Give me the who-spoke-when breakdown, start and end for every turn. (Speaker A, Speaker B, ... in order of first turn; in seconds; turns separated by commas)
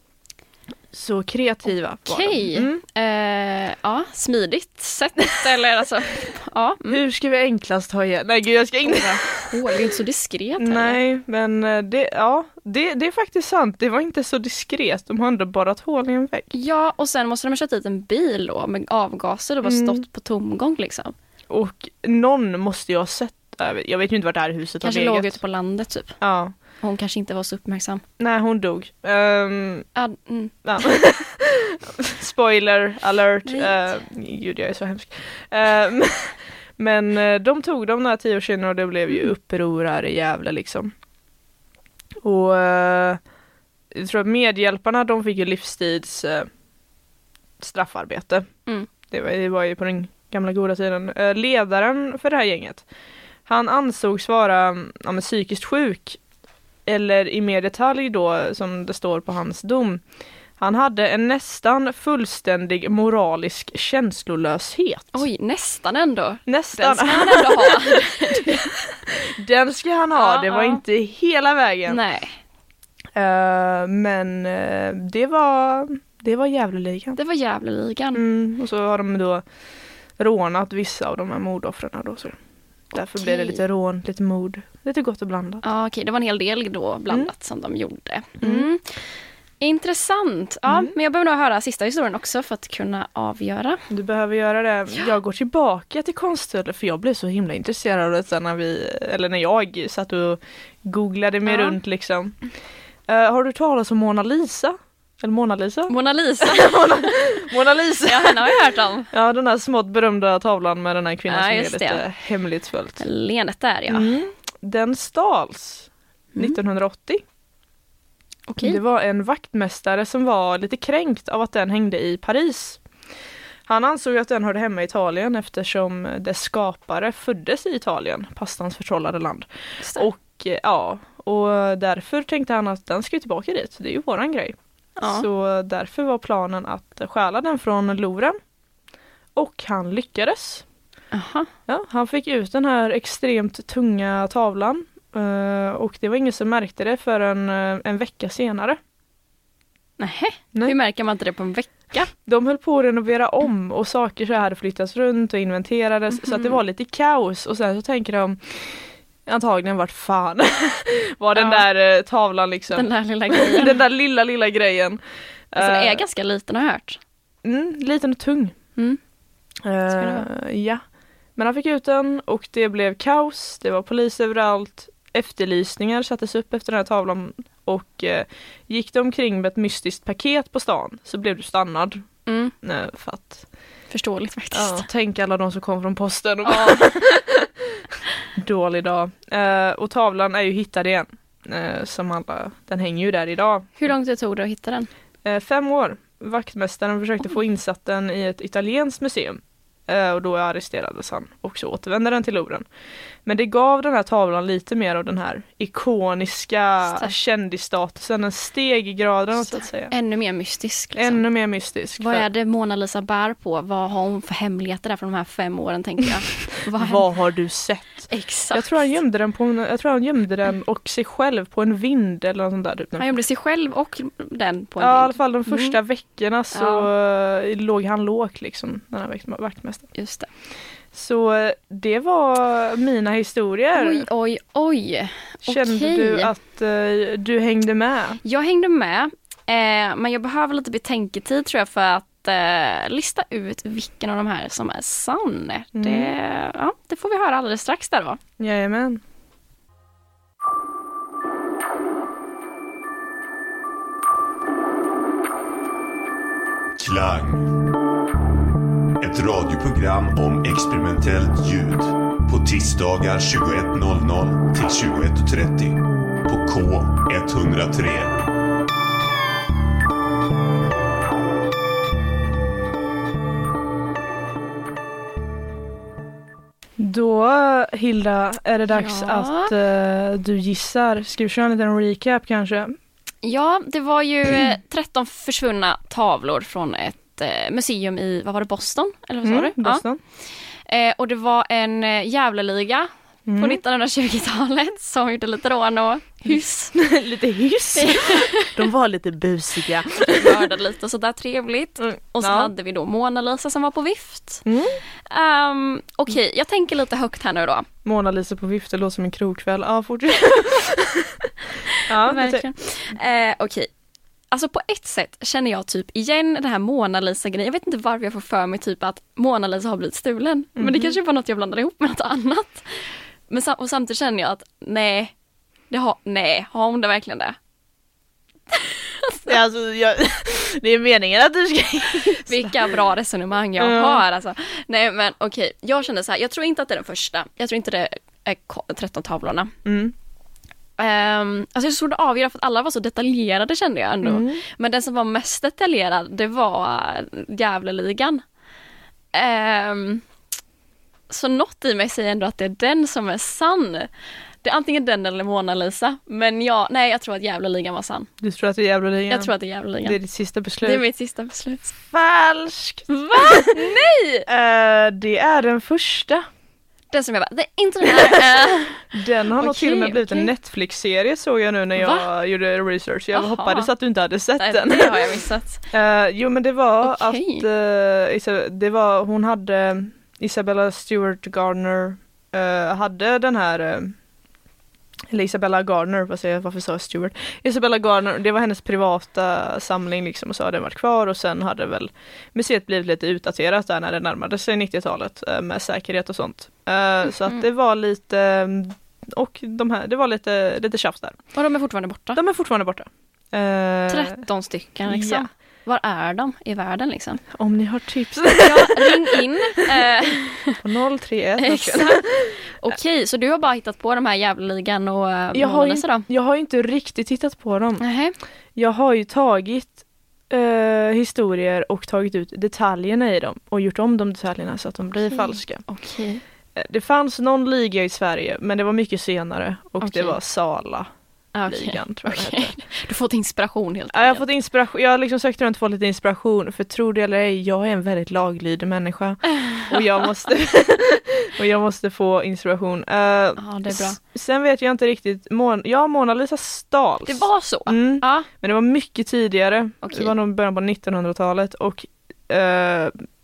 Speaker A: 0.9-2.8, Speaker B: 2.0-7.0, Speaker A: 6.9-9.4, Speaker B: 8.8-11.0, Speaker A: 10.6-16.5, Speaker B: 16.5-21.1, Speaker A: 19.6-20.0, Speaker A: 21.5-25.4, Speaker B: 24.8-26.2, Speaker A: 26.2-26.5, Speaker B: 26.8-28.0, Speaker A: 28.2-29.9, Speaker B: 29.9-30.9, Speaker A: 30.6-40.9, Speaker B: 33.5-33.9, Speaker A: 42.2-43.2, Speaker A: 43.9-46.5, Speaker A: 47.6-48.5, Speaker A: 49.1-52.8, Speaker A: 53.5-56.2, Speaker A: 56.9-60.0, Speaker A: 60.6-65.2, Speaker B: 65.1-68.6, Speaker A: 66.5-72.0, Speaker B: 70.1-70.8, Speaker B: 71.9-72.3, Speaker A: 73.1-77.2, Speaker B: 77.2-78.2, Speaker A: 78.1-79.4, Speaker A: 80.2-82.4, Speaker A: 82.9-85.6, Speaker B: 83.1-83.6, Speaker B: 85.6-88.8, Speaker A: 88.4-88.7, Speaker B: 89.6-93.8, Speaker A: 90.7-90.9, Speaker A: 93.9-102.4, Speaker B: 101.5-101.8, Speaker A: 103.1-108.5, Speaker B: 105.9-107.4, Speaker B: 108.0-109.1, Speaker A: 109.1-113.0, Speaker B: 111.3-112.0, Speaker B: 113.0-114.1, Speaker A: 113.9-117.2, Speaker B: 118.5-118.8, Speaker A: 118.6-122.8, Speaker A: 123.7-138.4, Speaker B: 129.8-130.1, Speaker B: 135.0-135.3, Speaker A: 139.3-140.6, Speaker B: 141.1-141.5, Speaker A: 141.7-148.8, Speaker B: 150.0-152.1, Speaker A: 152.1-165.0, Speaker B: 156.1-156.6, Speaker B: 161.3-161.6, Speaker B: 162.7-163.8, Speaker A: 165.5-166.0, Speaker B: 165.5-167.0, Speaker A: 167.4-168.6, Speaker A: 169.6-170.8, Speaker B: 169.9-170.2, Speaker A: 171.3-182.1, Speaker B: 182.3-182.5, Speaker A: 182.6-183.4, Speaker B: 183.9-184.9, Speaker A: 184.5-187.5, Speaker B: 186.4-187.2, Speaker A: 188.3-193.8, Speaker B: 193.8-194.9, Speaker A: 195.2-202.7, Speaker A: 203.2-209.9, Speaker B: 209.4-211.2, Speaker A: 210.9-212.2, Speaker B: 212.0-217.0, Speaker A: 216.8-223.1, Speaker B: 218.1-218.9, Speaker B: 222.9-225.8, Speaker A: 224.8-229.9, Speaker B: 226.5-226.9, Speaker B: 229.9-230.3, Speaker A: 230.9-234.1, Speaker B: 233.7-236.3, Speaker A: 235.4-238.2, Speaker B: 238.2-248.2, Speaker A: 245.7-246.1, Speaker A: 248.4-249.0, Speaker C: 256.8-257.5, Speaker C: 259.0-268.2, Speaker A: 276.8-282.7, Speaker B: 278.7-279.5, Speaker B: 283.2-289.8, Speaker A: 289.2-290.0, Speaker B: 290.7-296.8, Speaker A: 293.3-293.6, Speaker A: 296.8-300.5, Speaker B: 297.7-298.5, Speaker B: 300.0-304.4, Speaker A: 301.8-302.5, Speaker A: 304.4-304.8, Speaker B: 305.1-307.7, Speaker A: 307.8-311.3, Speaker B: 311.7-313.7, Speaker A: 311.9-312.5, Speaker B: 314.3-322.7, Speaker A: 320.6-321.0, Speaker B: 323.3-325.1, Speaker B: 325.7-327.4, Speaker B: 328.5-329.3, Speaker A: 329.3-332.7, Speaker B: 332.1-339.5, Speaker A: 333.6-334.0, Speaker A: 339.6-339.9, Speaker B: 340.8-348.2, Speaker A: 344.0-344.4, Speaker B: 349.1-350.0, Speaker B: 351.1-353.9, Speaker B: 354.4-358.1, Speaker A: 358.2-360.8, Speaker B: 359.1-360.0, Speaker B: 360.6-361.7, Speaker A: 361.9-363.5, Speaker B: 362.9-364.3, Speaker A: 364.2-366.2, Speaker B: 366.9-370.3, Speaker A: 367.8-368.4, Speaker A: 368.9-375.1, Speaker B: 371.8-372.1, Speaker B: 373.1-373.7, Speaker B: 374.4-375.6, Speaker A: 375.7-383.9, Speaker B: 376.8-377.4, Speaker A: 385.1-401.2, Speaker B: 401.3-402.2, Speaker A: 402.1-404.2, Speaker B: 403.9-407.2, Speaker A: 404.9-405.2, Speaker A: 407.3-409.2, Speaker B: 408.4-410.6, Speaker A: 410.6-412.7, Speaker B: 411.4-416.1, Speaker A: 415.3-417.8, Speaker B: 417.8-418.2, Speaker A: 418.6-425.6, Speaker B: 425.1-426.2, Speaker A: 426.5-430.9, Speaker B: 429.8-430.2, Speaker B: 431.3-434.2, Speaker A: 431.5-432.6, Speaker A: 433.9-453.0, Speaker B: 439.5-439.8, Speaker B: 443.4-444.0, Speaker B: 447.0-448.3, Speaker B: 449.8-450.1